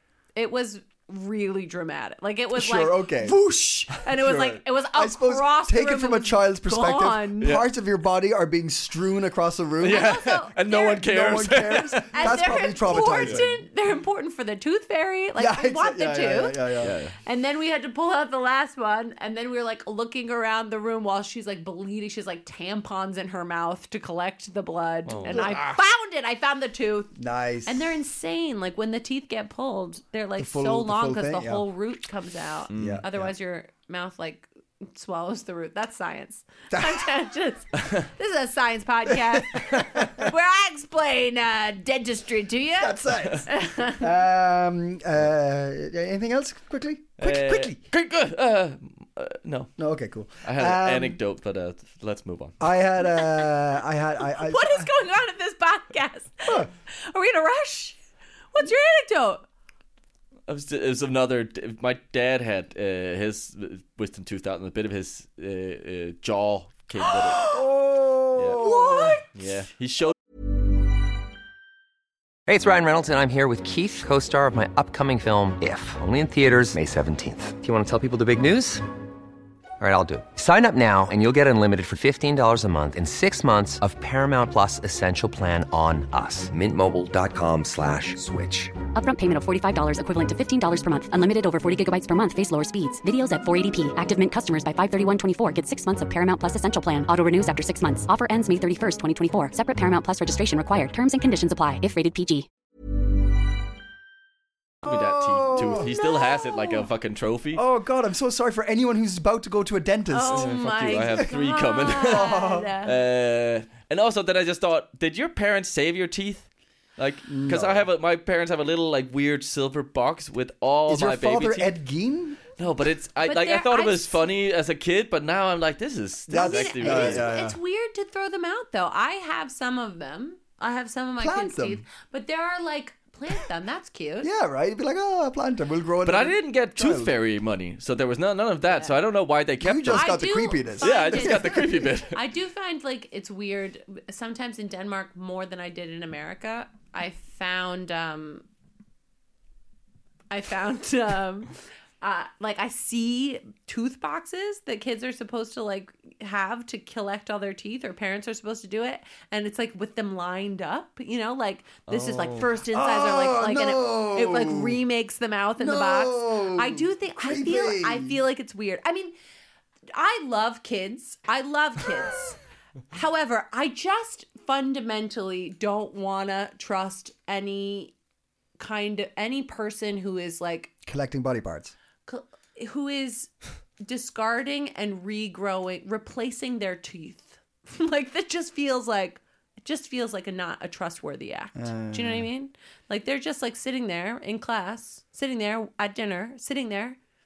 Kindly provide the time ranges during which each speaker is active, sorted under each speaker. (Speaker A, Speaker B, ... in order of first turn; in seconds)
Speaker A: 0.3-7.6, 9.8-11.0, 12.1-27.1, 27.7-44.1, 53.2-53.5, 54.2-58.0, 58.5-59.4, 67.3-67.6, 68.6-69.2, 105.7-106.9, 110.1-113.0, 123.2-124.2, 126.3-134.3, 138.7-138.9, 139.9-148.5, 150.3-169.1, 169.9-172.4, 172.9-177.9, 178.6-180.7, 182.1-197.0
Speaker B: 2.5-3.4, 3.9-13.5, 15.4-17.0, 25.3-25.6, 27.1-27.9, 30.4-31.7, 32.7-33.3, 36.7-37.1, 39.5-40.3, 42.8-47.8, 49.8-51.2, 52.6-54.9, 67.5-69.2, 104.8-105.9, 107.5-111.2, 112.0-112.7, 117.3-117.9, 120.9-122.4, 126.3-127.6, 131.2-131.8, 134.2-137.1, 139.6-141.9, 162.7-164.8, 165.6-168.2, 180.9-181.8, 191.6-192.3
Speaker C: 9.8-13.5, 16.8-17.1, 25.1-25.7, 32.7-33.0, 47.2-49.8, 50.4-52.6, 60.5-67.5, 68.4-68.7, 69.3-70.2, 104.8-107.6, 110.3-121.7, 122.6-127.3, 136.1-140.2, 140.8-142.2, 161.9-162.5
Speaker D: 72.5-78.9, 79.8-88.8
Speaker E: 88.9-102.5